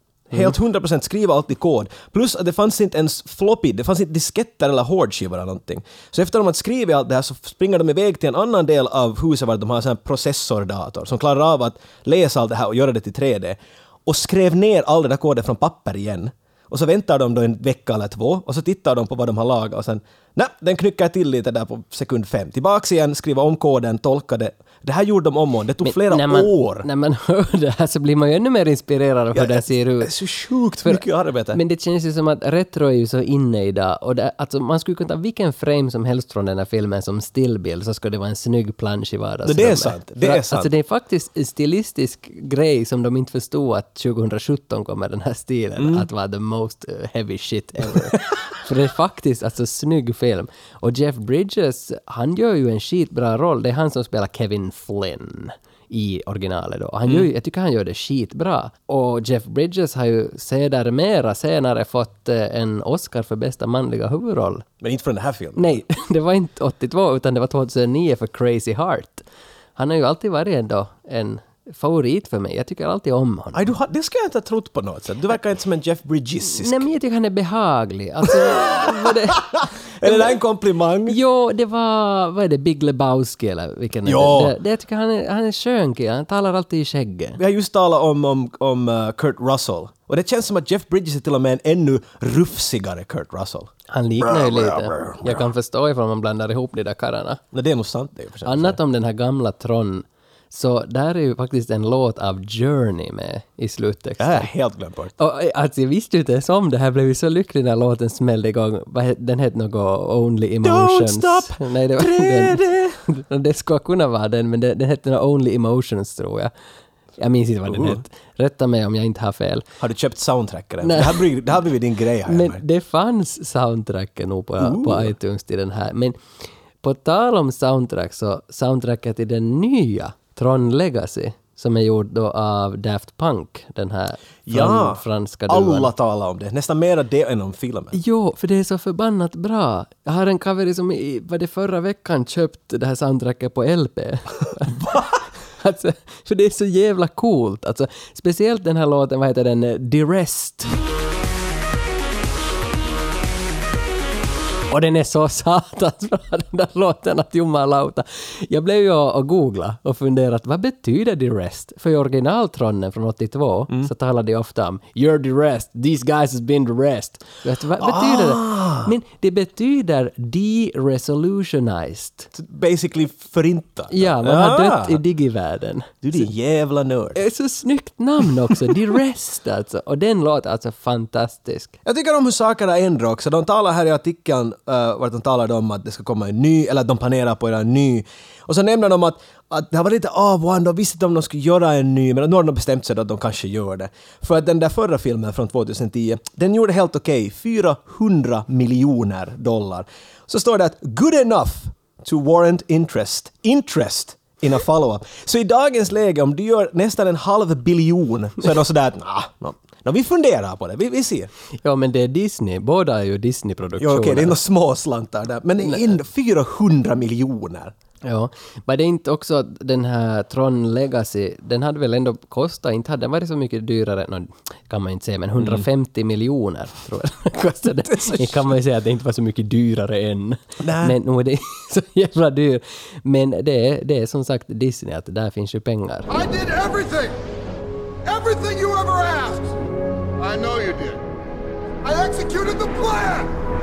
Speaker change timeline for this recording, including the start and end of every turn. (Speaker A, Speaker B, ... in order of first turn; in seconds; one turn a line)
Speaker A: 0.3-26.9
Speaker B: 25.8-30.1
Speaker A: 29.3-31.6
Speaker B: 30.8-64.7
Speaker A: 39.4-40.7
Speaker A: 45.8-46.1
Speaker A: 64.8-65.8
Speaker B: 65.5-73.7
Speaker A: 73.5-76.9
Speaker B: 76.4-80.4
Speaker A: 78.5-79.4
Speaker A: 80.0-81.2
Speaker B: 81.0-87.4
Speaker A: 84.0-84.5
Speaker A: 87.4-95.5
Speaker B: 93.9-97.4
Speaker A: 97.5-98.8
Speaker B: 98.4-104.5
Speaker A: 104.2-105.1
Speaker B: 105.2-116.5
Speaker A: 110.6-113.0
Speaker B: 117.2-119.6
Speaker A: 117.7-118.0
Speaker A: 119.8-122.6
Speaker B: 120.8-121.3
Speaker B: 122.2-126.1
Speaker A: 124.6-125.1
Speaker B: 126.8-135.9
Speaker A: 134.4-138.0
Speaker B: 137.9-150.7
Speaker B: 154.7-172.3
Speaker A: 167.8-168.9
Speaker A: 172.3-175.0
Speaker B: 173.9-176.3
Speaker A: 176.0-177.2
Speaker B: 177.1-181.7
Speaker A: 181.8-211.3
Speaker B: 211.6-214.4
Speaker A: 213.8-217.7
Speaker B: 215.6-215.9
Speaker B: 218.0-236.3
Speaker A: 225.4-225.6
Speaker A: 227.8-228.5
Speaker A: 230.6-231.0
Speaker C: 236.2-237.2
Speaker C: 238.0-239.5
Speaker C: 240.2-241.0
Speaker C: 241.8-243.3